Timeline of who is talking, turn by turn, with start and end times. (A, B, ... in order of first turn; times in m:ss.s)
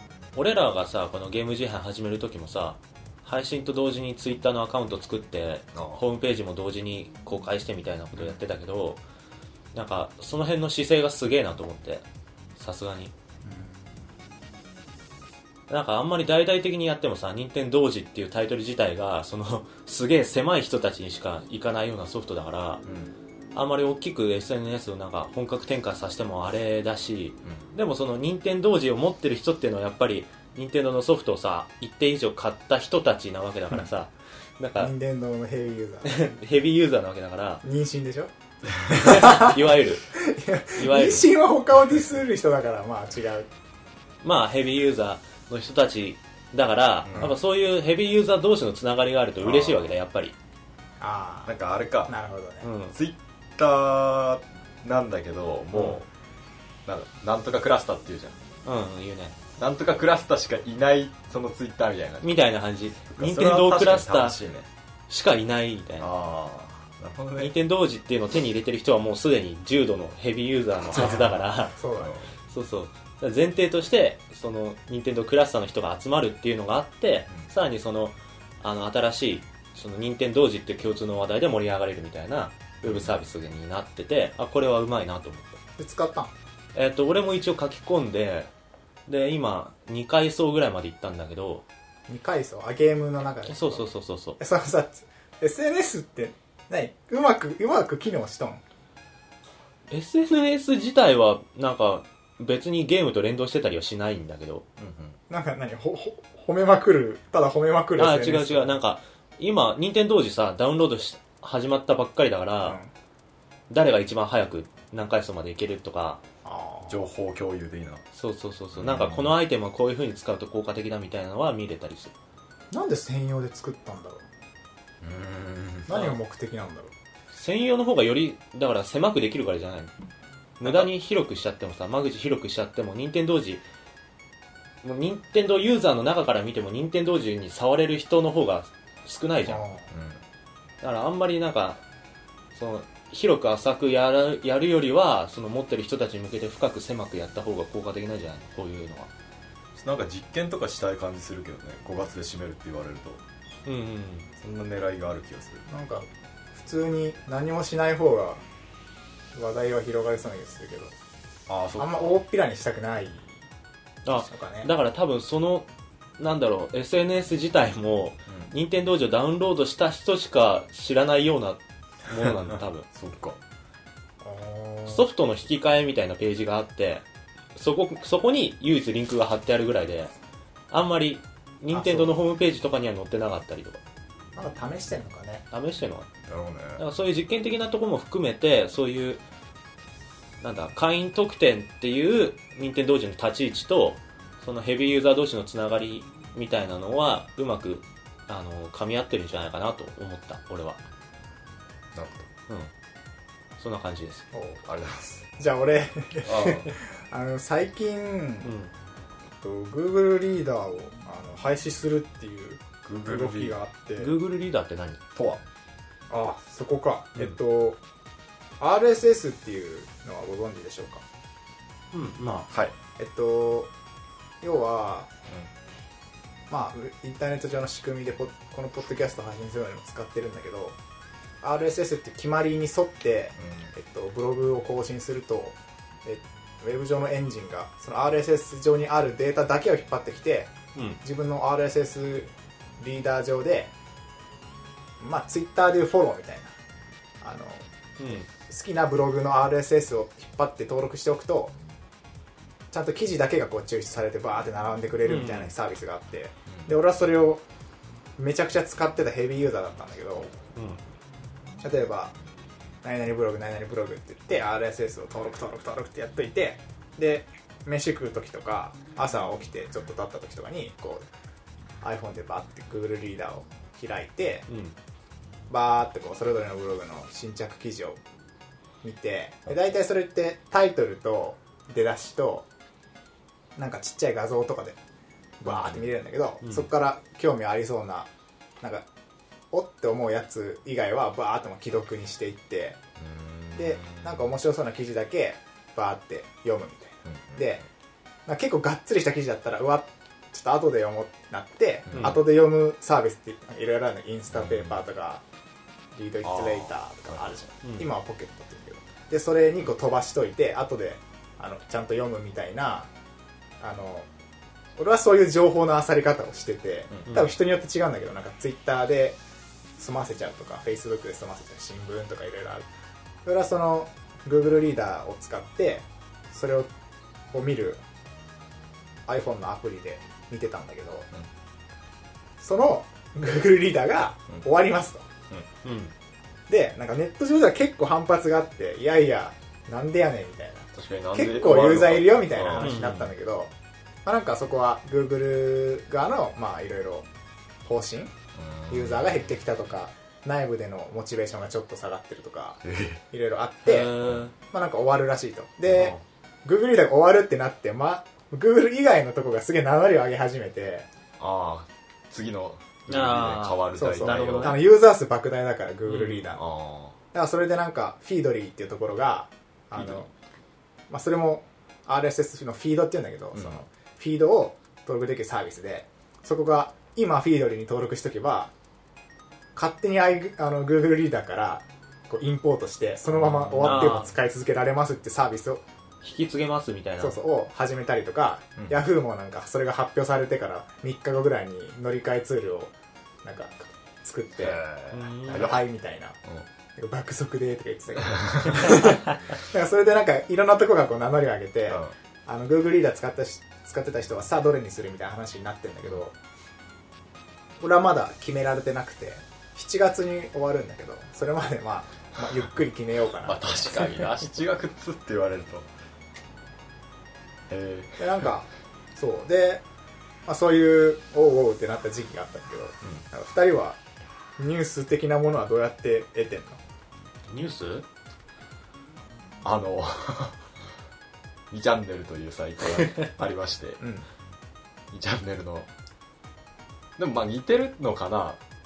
0:00.3-0:09.0 A
0:05.7-0:06.0 B
0:09.7-0:12.0 A
0:12.6-0:13.1 A
0:13.4-0:13.8 C
0:15.7-0:22.8 A
0:22.8-0:23.1 B
0:23.5-0:34.9 A
0:34.8-0:36.3 C
0:36.0-0:37.6 A
0:37.6-0:38.3 C
0:38.8-0:43.5 C
0:38.9-0:40.1 A
0:40.7-0:41.3 A
0:44.2-0:50.3 A
0:47.0-0:47.3 B
0:49.4-0:49.9 B
0:51.0-0:51.5 C
0:51.4-0:52.1 B
0:52.1-0:52.7 C
0:52.6-0:52.9 A
0:52.9-0:56.1 B
0:55.7-0:56.0 C
0:56.9-0:58.4 B
0:58.6-0:59.4 A
0:59.6-1:02.3 B
1:02.2-1:04.4 A
1:03.1-1:04.7 B
1:05.1-1:06.1 A
1:06.0-1:07.5 B
1:07.4-1:11.7 A
1:10.9-1:12.2 C
1:11.9-1:12.2 B
1:12.5-1:25.6 A
1:22.8-1:23.1 B
1:25.8-1:26.3 C
1:26.7-1:28.5 A
1:29.1-1:31.6 A
1:32.1-1:33.9 C
1:33.4-1:34.4 A
1:34.4-1:38.6 C
1:39.9-1:44.6 A
1:44.8-1:45.2 B
1:45.3-1:48.8 C
1:48.0-1:52.8 A
1:52.6-1:52.9 C
1:53.7-1:56.2 A
1:56.4-1:57.0 C
1:56.9-1:58.0 B
1:58.1-2:02.1 A
1:58.8-1:59.4 B
2:02.7-2:04.2 C
2:05.0-2:05.9 B
2:05.9-2:06.9 C
2:05.9-2:06.2 A
2:07.3-2:09.9 A
2:10.6-2:13.6 A
2:14.8-2:19.7 A
2:19.5-2:19.8 C
2:19.9-2:20.2 B
2:20.8-2:21.8 A
2:22.5-2:29.1 A
2:29.7-2:33.2 B
2:33.6-2:34.3 A
2:34.4-2:35.7 B
2:35.7-2:38.4 C
2:39.3-2:40.9 C
2:41.5-2:42.2 B
2:41.8-2:43.4 C
2:44.0-2:45.7 A
2:44.2-2:44.7 C
2:46.2-2:52.9 A
2:52.9-2:53.4 B
2:54.2-2:55.1 C
2:54.9-2:57.0 A
2:57.6-3:00.1 A
3:00.7-3:03.8 A
3:01.7-3:02.2 C
3:04.3-3:05.4 C
3:05.5-3:06.1 A
3:06.3-3:06.8 B
3:06.8-3:09.2 A
3:10.4-3:20.8 A
3:21.9-3:22.3 B
3:23.6-3:24.3 A
3:24.3-3:24.6 C
3:24.6-3:25.2 B
3:25.4-3:28.5 C
3:26.2-3:26.7 B
3:28.4-3:28.7 A
3:29.4-3:34.1 C
3:32.8-3:33.6 B
3:34.0-3:35.0 A
3:35.1-3:35.4 B
3:36.1-3:37.8 C
3:38.6-3:41.0 C
3:41.9-3:42.5 A
3:43.0-3:43.7 C
3:44.4-3:45.1 C
3:46.5-3:50.8 C
3:51.4-4:03.7 C
3:53.4-3:53.7 B
4:00.7-4:01.0 A
4:05.0-4:06.5 C
4:07.2-4:07.6 C
4:08.0-4:08.3 A
4:08.4-4:11.5 C
4:12.7-4:17.4 C
4:15.0-4:15.5 A
4:16.5-4:16.7 B
4:18.2-4:20.3 C
4:20.5-4:20.8 A
4:21.6-4:22.1 C
4:22.8-4:31.0 C
4:31.8-4:34.5 C
4:34.5-4:34.8 A
4:35.5-4:38.0 C
4:38.8-4:42.5 C
4:43.6-4:44.8 C
4:45.4-4:48.1 C
4:45.4-4:45.9 B
4:46.4-4:46.7 A
4:48.6-4:48.9 C
4:49.5-4:52.8 C
4:53.0-4:54.2 B
4:53.6-4:57.6 C
4:57.0-4:57.6 B
4:58.2-5:05.2 C
5:01.9-5:02.2 B
5:01.9-5:02.2 A
5:04.3-5:04.8 B
5:05.9-5:12.9 C
5:06.2-5:07.4 B
5:07.6-5:07.9 A
5:13.6-5:14.1 C
5:14.8-5:19.2 C
5:19.8-5:22.6 C
5:23.2-5:26.7 C
5:27.3-5:27.8 C
5:29.1-5:31.1 C
5:32.4-5:35.1 C
5:35.6-5:35.9 A
5:36.5-5:43.5 C
5:40.7-5:42.8 B
5:42.6-5:43.1 A
5:44.0-5:47.1 C
5:47.6-5:48.1 C
5:48.4-5:49.2 B
5:48.7-5:53.9 C
5:52.6-5:53.0 B
5:53.6-5:54.3 A
5:54.5-6:00.9 C
5:55.7-5:56.0 A
6:01.2-6:04.6 B
6:02.9-6:04.6 A
6:03.7-6:06.4 C
6:05.9-6:06.3 A
6:06.4-6:07.0 B
6:07.1-6:10.1 C
6:09.8-6:10.0 B
6:10.9-6:18.5 C
6:13.3-6:13.6 B
6:19.5-6:25.6 C
6:23.1-6:24.0 B
6:23.6-6:24.1 A
6:26.0-6:27.2 A
6:27.0-6:32.7 C
6:33.2-6:34.6 C
6:34.4-6:35.6 B
6:34.9-6:35.5 A
6:35.3-6:36.2 C
6:36.8-6:46.1 C
6:38.0-6:38.8 B
6:47.6-6:54.1 C
6:53.2-6:55.7 B
6:57.5-6:58.3 B
6:58.0-6:59.6 C
7:00.2-7:03.8 C
7:04.4-7:06.6 C
7:07.3-7:07.8 A
7:09.4-7:10.4 B
7:11.5-7:13.8 B
7:13.8-7:14.0 C
7:14.9-7:15.7 B
7:17.0-7:18.4 B